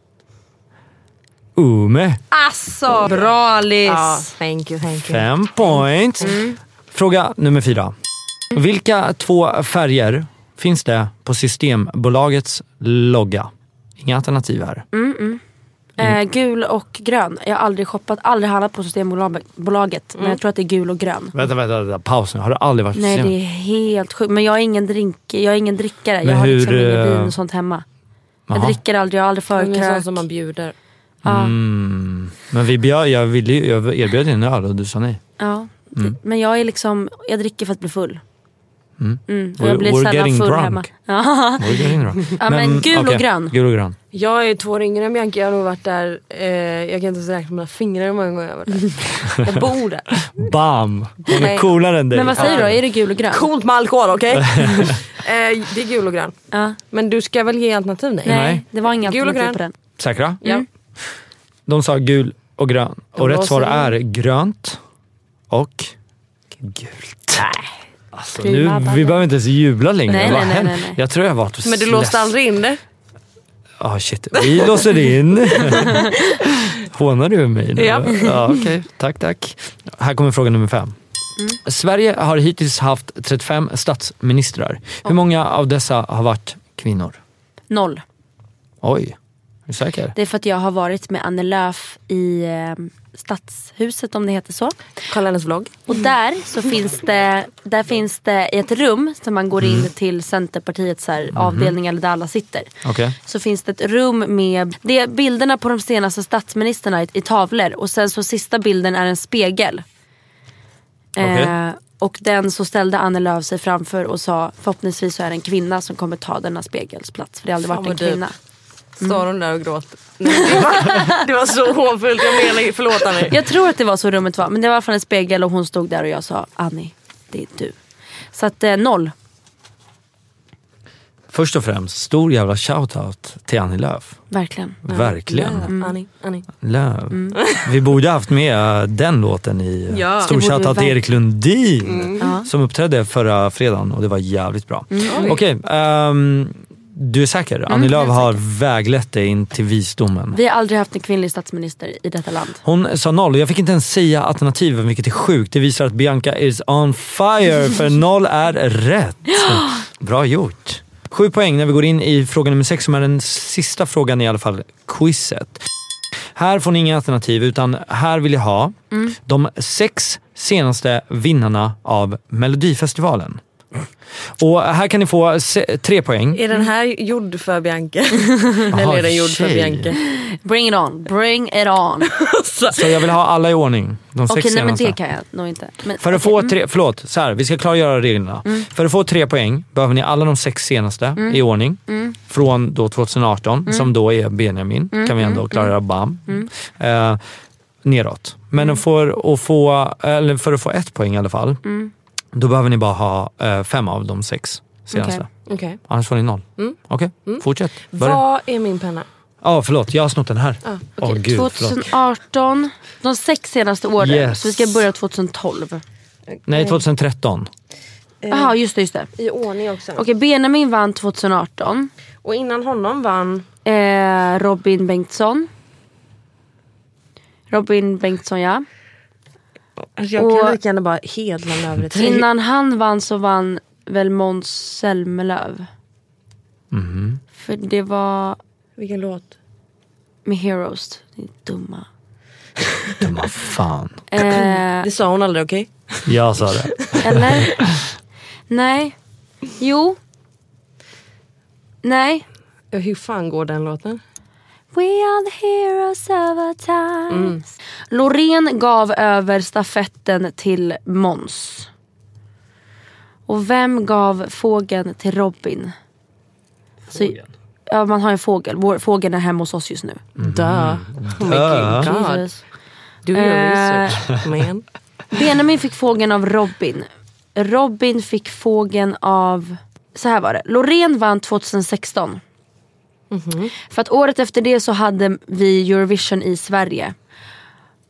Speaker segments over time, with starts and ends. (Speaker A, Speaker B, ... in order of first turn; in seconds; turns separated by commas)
Speaker A: 1.6-2.2, Speaker B: 2.3-3.3, Speaker C: 3.0-4.3, Speaker B: 3.9-5.3, Speaker A: 5.0-6.4, Speaker C: 6.2-6.5, Speaker A: 6.9-7.9, Speaker A: 8.5-14.8, Speaker C: 14.9-15.4, Speaker C: 16.0-21.4, Speaker A: 21.3-23.3, Speaker C: 22.9-27.9, Speaker A: 26.2-27.4, Speaker A: 28.5-28.8, Speaker C: 28.5-30.2, Speaker B: 29.6-30.8, Speaker A: 31.2-35.2, Speaker C: 31.2-31.6, Speaker C: 35.4-38.2, Speaker A: 39.0-40.9, Speaker C: 39.3-41.8, Speaker A: 41.6-44.0, Speaker C: 42.4-43.5, Speaker B: 44.1-50.3, Speaker A: 50.2-52.8, Speaker B: 51.3-51.8, Speaker C: 52.1-53.5, Speaker B: 52.4-52.8, Speaker B: 53.3-56.4, Speaker A: 54.4-54.9, Speaker C: 56.5-56.8, Speaker B: 56.9-59.6, Speaker C: 58.2-59.7, Speaker A: 58.3-58.6, Speaker A: 60.0-60.4, Speaker A: 61.7-64.8, Speaker B: 63.2-63.9, Speaker A: 65.5-65.9, Speaker A: 66.6-67.5, Speaker C: 67.4-67.7, Speaker A: 68.1-72.3, Speaker C: 68.4-69.2, Speaker C: 70.1-71.0, Speaker B: 71.7-72.8, Speaker A: 73.8-81.0, Speaker B: 77.8-78.6, Speaker A: 81.7-87.2, Speaker C: 87.7-88.0, Speaker A: 88.8-90.2, Speaker C: 90.2-94.8, Speaker B: 95.1-96.0, Speaker C: 95.9-102.7, Speaker A: 99.6-99.9, Speaker A: 101.3-101.8, Speaker A: 102.8-103.2, Speaker C: 103.2-109.8, Speaker C: 111.2-118.3, Speaker A: 111.2-111.5, Speaker B: 117.7-118.2, Speaker B: 119.0-123.4, Speaker C: 120.3-121.2, Speaker C: 123.3-127.8, Speaker C: 128.3-129.1, Speaker A: 131.3-134.2, Speaker C: 134.3-134.8, Speaker A: 134.8-135.7, Speaker B: 134.9-136.5, Speaker C: 135.7-136.0, Speaker A: 136.6-150.4, Speaker B: 137.4-137.7, Speaker B: 139.9-140.3, Speaker C: 140.3-141.0, Speaker B: 141.8-142.3, Speaker C: 142.2-142.5, Speaker C: 144.9-145.3, Speaker B: 145.1-145.4, Speaker C: 147.7-148.4, Speaker C: 150.3-152.6, Speaker A: 152.6-165.6, Speaker A: 166.3-173.4, Speaker A: 174.4-176.4, Speaker B: 176.3-180.0, Speaker A: 178.7-179.9, Speaker C: 180.0-182.2, Speaker B: 182.1-183.1, Speaker A: 182.7-185.0, Speaker C: 184.3-186.5, Speaker A: 186.0-197.2, Speaker C: 191.2-192.2, Speaker C: 193.7-193.9, Speaker C: 194.9-195.7, Speaker A: 197.8-201.6, Speaker C: 201.7-201.9, Speaker A: 202.3-205.3, Speaker C: 204.9-205.2, Speaker B: 205.5-205.8, Speaker A: 205.9-208.2, Speaker B: 206.6-209.1, Speaker A: 209.4-211.9, Speaker C: 211.0-215.8, Speaker A: 214.0-214.8, Speaker B: 216.3-216.8, Speaker A: 216.5-217.5, Speaker B: 218.2-218.6, Speaker C: 218.3-219.1, Speaker B: 219.2-220.1, Speaker C: 220.0-221.9, Speaker B: 222.2-223.5, Speaker C: 223.7-225.5, Speaker C: 227.5-228.7, Speaker B: 229.8-232.3, Speaker C: 230.2-230.6, Speaker C: 231.9-235.7, Speaker A: 236.7-237.2, Speaker C: 237.3-238.4, Speaker B: 238.8-239.3, Speaker C: 240.3-241.9, Speaker A: 243.0-244.0, Speaker C: 244.1-244.9, Speaker B: 244.3-247.5, Speaker A: 246.1-247.8, Speaker C: 247.0-247.6, Speaker C: 248.5-248.9, Speaker C: 249.6-250.0, Speaker C: 251.8-252.2, Speaker B: 252.7-254.0, Speaker C: 254.7-261.7, Speaker B: 257.1-257.4, Speaker C: 263.3-265.7, Speaker C: 266.9-270.0, Speaker A: 266.9-267.2, Speaker A: 270.2-271.9, Speaker B: 270.2-272.3, Speaker C: 271.3-272.4, Speaker B: 273.1-274.7, Speaker C: 273.1-274.1, Speaker C: 275.1-282.2, Speaker B: 283.1-283.5, Speaker C: 283.7-286.9